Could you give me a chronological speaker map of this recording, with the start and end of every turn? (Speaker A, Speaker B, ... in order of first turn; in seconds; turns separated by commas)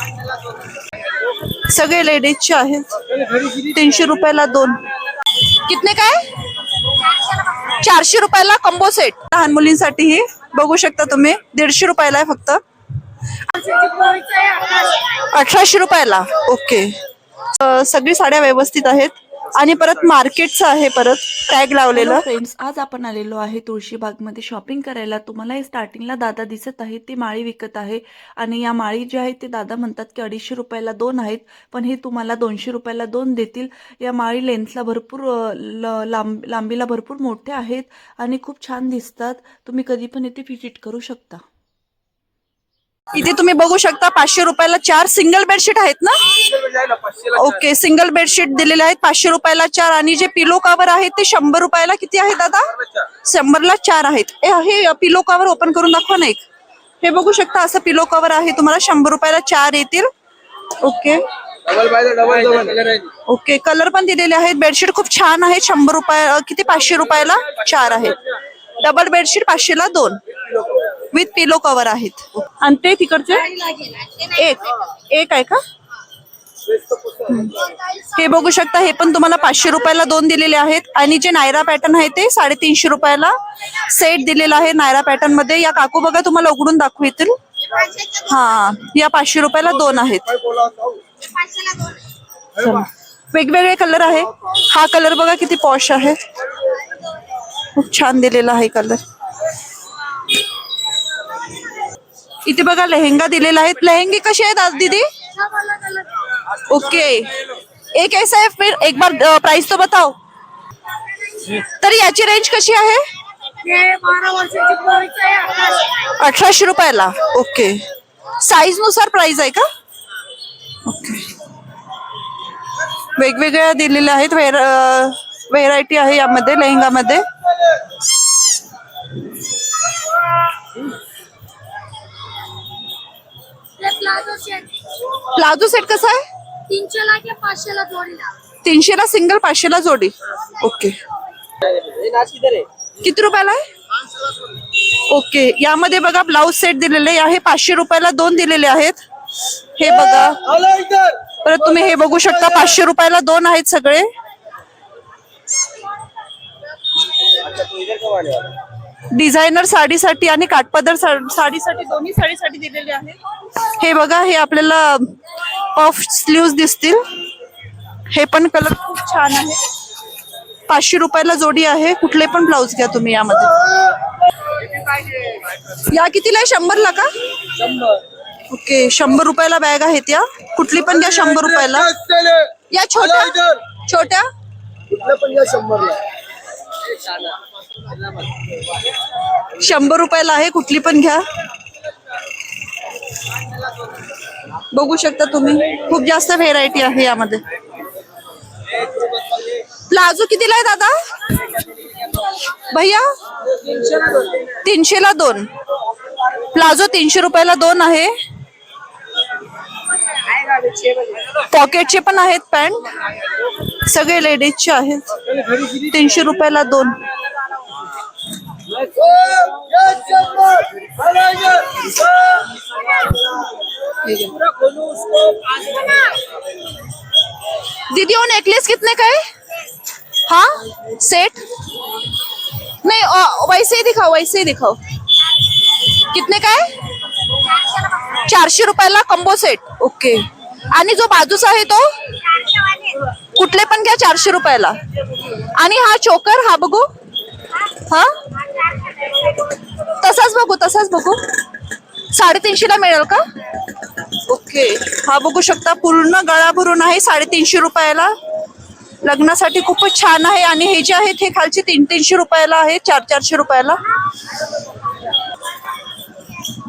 Speaker A: 1.7-2.9, Speaker B: 3.1-3.6, Speaker A: 3.7-4.8, Speaker A: 5.7-6.2, Speaker A: 7.8-12.6, Speaker C: 13.5-15.0, Speaker A: 15.3-17.0, Speaker A: 17.5-22.3, Speaker D: 22.2-41.4, Speaker A: 35.2-36.3, Speaker A: 43.1-46.3, Speaker B: 46.4-47.5, Speaker A: 47.4-52.7, Speaker A: 53.2-56.4, Speaker A: 57.0-60.1, Speaker A: 60.8-61.2, Speaker B: 61.7-63.1, Speaker A: 63.3-68.2, Speaker A: 68.8-70.2, Speaker A: 71.1-73.5, Speaker C: 73.6-74.2, Speaker A: 74.3-75.6, Speaker A: 77.3-77.6, Speaker A: 78.1-87.4, Speaker C: 87.7-88.2, Speaker A: 88.2-90.3, Speaker C: 91.3-92.0, Speaker A: 92.6-96.2, Speaker A: 97.7-99.0, Speaker A: 102.5-105.1, Speaker C: 105.3-106.1, Speaker A: 106.7-107.3, Speaker A: 107.9-110.1, Speaker A: 111.5-113.0, Speaker C: 113.6-116.1, Speaker A: 116.2-117.8, Speaker A: 118.4-119.7, Speaker A: 120.8-121.2, Speaker A: 123.2-127.2, Speaker C: 133.8-134.7, Speaker A: 135.3-136.2, Speaker C: 136.7-138.3, Speaker A: 138.6-141.0, Speaker B: 141.7-142.7, Speaker A: 143.0-143.6, Speaker A: 145.1-149.0, Speaker A: 149.8-150.4, Speaker B: 150.4-151.2, Speaker A: 151.4-154.1, Speaker B: 157.4-158.5, Speaker A: 159.1-163.2, Speaker A: 163.8-165.2, Speaker A: 165.7-167.0, Speaker A: 168.1-169.6, Speaker A: 170.7-173.6, Speaker A: 175.9-177.1, Speaker B: 177.6-178.0, Speaker A: 178.5-181.9, Speaker B: 181.3-182.5, Speaker A: 182.7-184.3, Speaker B: 184.9-186.0, Speaker B: 186.8-188.2, Speaker A: 189.6-191.3, Speaker A: 194.7-197.4, Speaker B: 198.9-199.4, Speaker A: 199.9-201.0, Speaker A: 202.7-203.1, Speaker B: 203.8-204.2, Speaker A: 204.6-205.5, Speaker A: 206.5-208.1, Speaker A: 211.5-213.0, Speaker A: 213.8-215.1, Speaker B: 215.3-215.8, Speaker A: 215.9-217.0, Speaker B: 218.7-221.9, Speaker A: 224.0-224.3, Speaker B: 224.4-225.8, Speaker A: 227.9-229.2, Speaker A: 230.3-231.4, Speaker A: 232.8-234.8, Speaker A: 236.1-236.7, Speaker A: 238.2-241.9, Speaker C: 242.4-242.9, Speaker A: 243.3-244.8, Speaker A: 245.5-246.9, Speaker A: 247.9-248.2, Speaker A: 250.0-251.4, Speaker A: 252.1-253.2, Speaker A: 254.3-258.1, Speaker A: 259.0-263.8